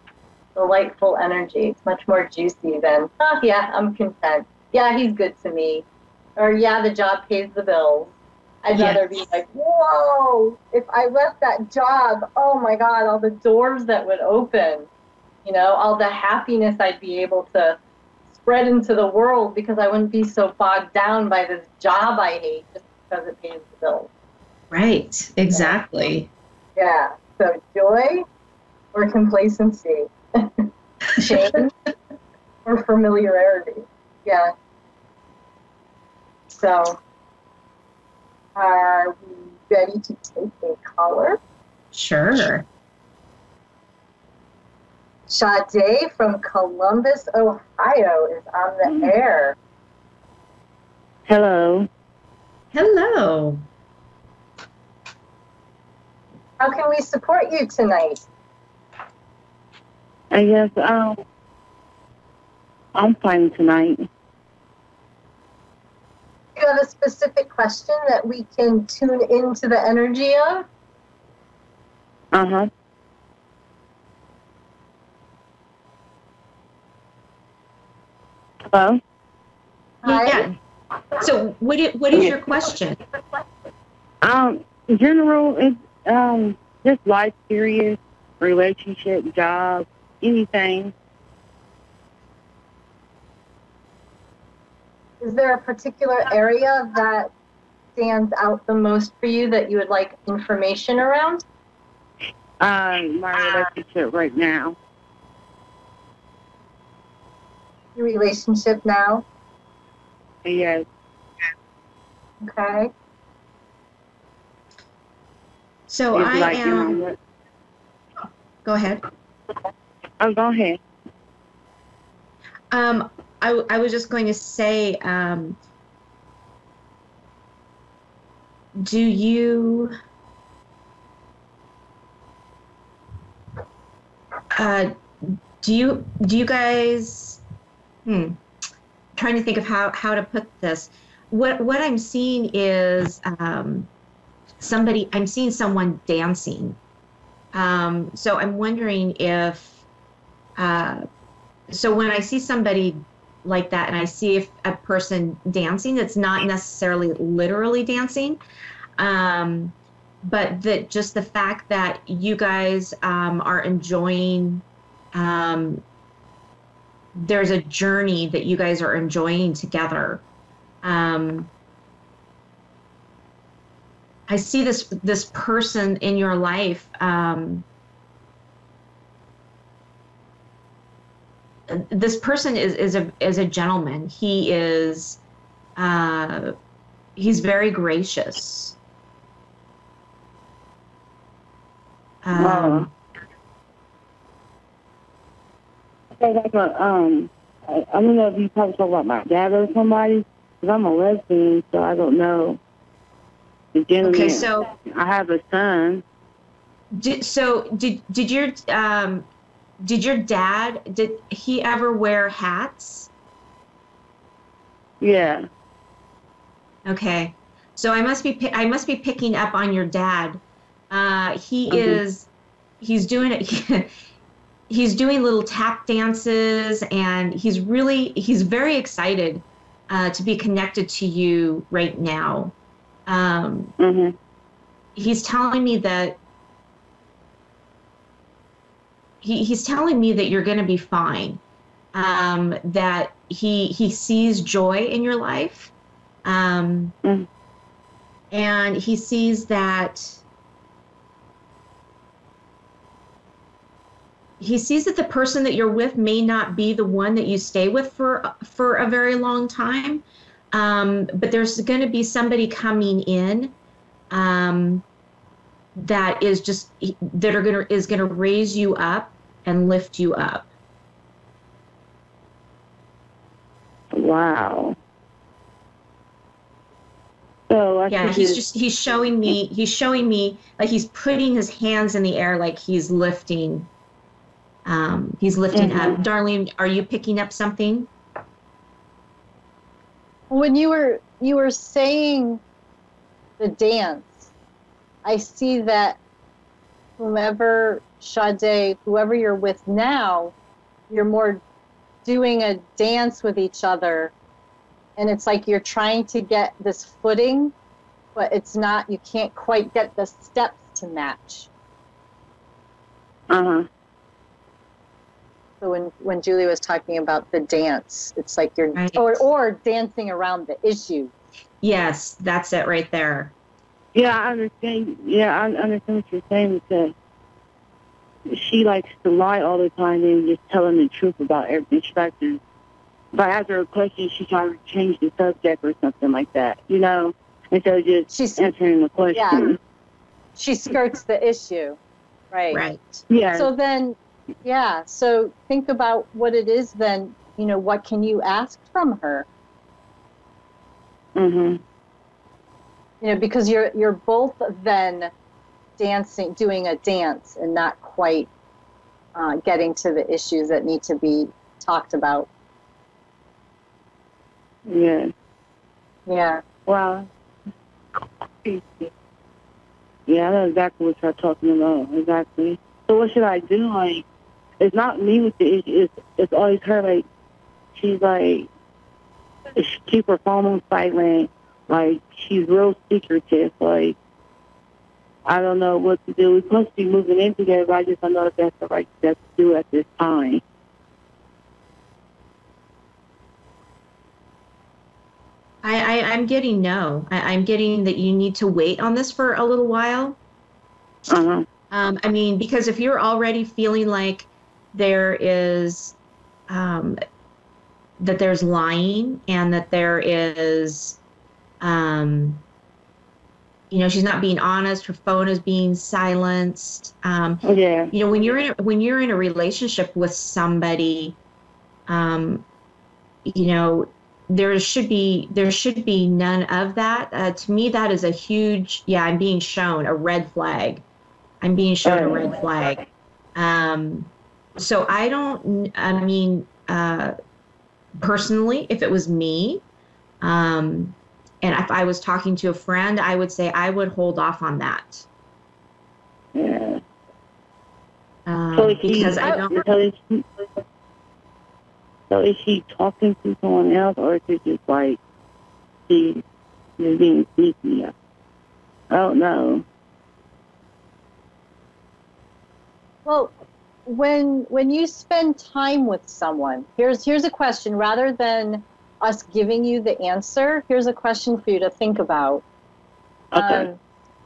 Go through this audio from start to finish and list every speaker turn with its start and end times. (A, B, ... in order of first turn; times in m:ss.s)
0:00.5-0:05.8 A
0:06.4-0:14.9 A
0:08.7-0:09.0 B
0:15.4-0:17.8 A
0:18.4-0:24.1 A
0:24.7-0:26.3 B
0:25.5-0:26.1 A
0:26.8-0:28.2 A
0:28.9-0:31.7 A
0:32.6-0:34.5 A
0:36.5-0:37.0 A
0:38.6-0:41.4 A
0:41.9-0:42.7 B
0:45.3-0:49.6 A
0:51.3-0:51.9 C
0:52.7-0:53.6 B
0:56.6-0:58.2 A
1:00.3-1:01.2 C
1:02.9-1:04.1 C
1:06.6-1:10.6 A
1:12.3-1:12.7 C
1:18.7-1:19.0 C
1:20.0-1:20.5 A
1:20.0-1:20.5 B
1:21.2-1:23.0 B
1:24.2-1:30.9 C
1:35.2-1:37.3 A
1:38.0-1:41.4 A
1:42.6-1:44.8 C
1:48.0-1:49.2 A
1:50.4-1:50.8 C
1:52.4-1:52.9 A
1:55.9-1:57.0 B
1:56.1-1:57.1 C
1:58.6-1:59.0 B
2:00.2-2:00.8 C
2:02.7-2:05.6 B
2:08.8-2:09.9 B
2:14.6-2:17.4 B
2:18.0-2:18.4 B
2:19.2-2:23.9 B
2:24.6-2:26.8 B
2:27.5-2:29.8 B
2:30.6-2:31.0 B
2:31.7-2:38.4 B
2:39.0-2:39.7 B
2:40.2-2:45.8 B
2:47.1-2:50.2 B
2:50.8-2:51.5 B
2:54.3-2:57.6 B
3:01.7-3:05.2 B
3:05.8-3:06.5 B
3:07.2-3:08.8 B
3:12.2-3:12.9 B
3:12.4-3:12.9 C
3:16.2-3:22.6 C
3:23.7-3:26.0 C
3:24.0-3:24.6 B
3:26.9-3:29.2 B
3:29.8-3:33.1 B
3:35.0-3:35.4 C
3:36.8-3:42.3 B
3:41.7-3:42.0 C
3:42.8-3:43.9 B
3:44.7-3:52.5 B
3:53.1-3:53.7 B
3:53.8-3:54.1 C
3:55.0-3:56.2 B
3:59.2-4:01.4 B
4:01.9-4:05.7 B
4:06.2-4:06.9 B
4:08.3-4:10.2 B
4:14.4-4:23.5 B
4:24.1-4:24.8 B
4:25.8-4:30.5 B
4:33.9-4:34.8 C
4:37.5-4:38.4 C
4:37.9-4:43.7 B
4:44.6-4:47.9 B
4:45.5-4:46.0 C
4:50.3-4:52.4 A
4:53.4-4:54.3 A
4:55.0-4:56.0 A
4:57.0-5:00.3 A
5:00.9-5:01.4 A
5:02.0-5:04.1 A
5:05.0-5:07.5 A
5:08.2-5:11.5 A
5:13.3-5:13.6 C
5:15.6-5:21.1 A
5:18.7-5:19.2 B
5:21.6-5:23.3 B
5:23.9-5:26.9 C
5:28.3-5:32.4 C
5:33.1-5:39.6 C
5:38.1-5:38.5 A
5:39.1-5:39.5 A
5:40.4-5:41.8 A
5:42.3-5:42.6 A
5:42.5-5:43.0 B
5:43.1-5:43.5 C
5:43.3-5:49.2 A
5:51.2-5:51.6 C
5:53.0-5:55.1 A
5:55.8-5:58.3 A
5:59.2-6:02.3 A
6:04.7-6:05.1 C
6:06.1-6:06.4 A
6:06.6-6:07.1 C
6:08.0-6:08.9 C
6:10.1-6:14.0 C
6:14.6-6:17.1 C
6:17.7-6:18.5 C
6:19.6-6:24.0 C
6:25.2-6:30.4 C
6:35.6-6:40.2 B
6:41.1-6:41.4 C
6:41.7-6:45.9 B
6:46.5-6:47.0 B
6:48.0-6:51.0 B
6:51.6-6:52.4 B
6:53.7-7:01.2 B
6:57.4-6:57.9 C
7:01.9-7:02.4 B
7:03.2-7:10.8 B
7:11.4-7:12.8 B
7:11.8-7:12.4 C
7:13.3-7:17.1 B
7:18.0-7:19.6 B
7:20.2-7:25.0 B
7:26.3-7:26.8 C
7:28.2-7:29.5 B
7:28.5-7:30.4 C
7:29.2-7:29.6 A
7:32.1-7:35.0 C
7:35.9-7:36.2 C
7:36.8-7:37.9 C
7:38.9-7:39.6 C
7:43.0-7:43.3 A
7:43.8-7:52.4 A
7:53.3-7:53.6 C
7:53.3-7:53.8 A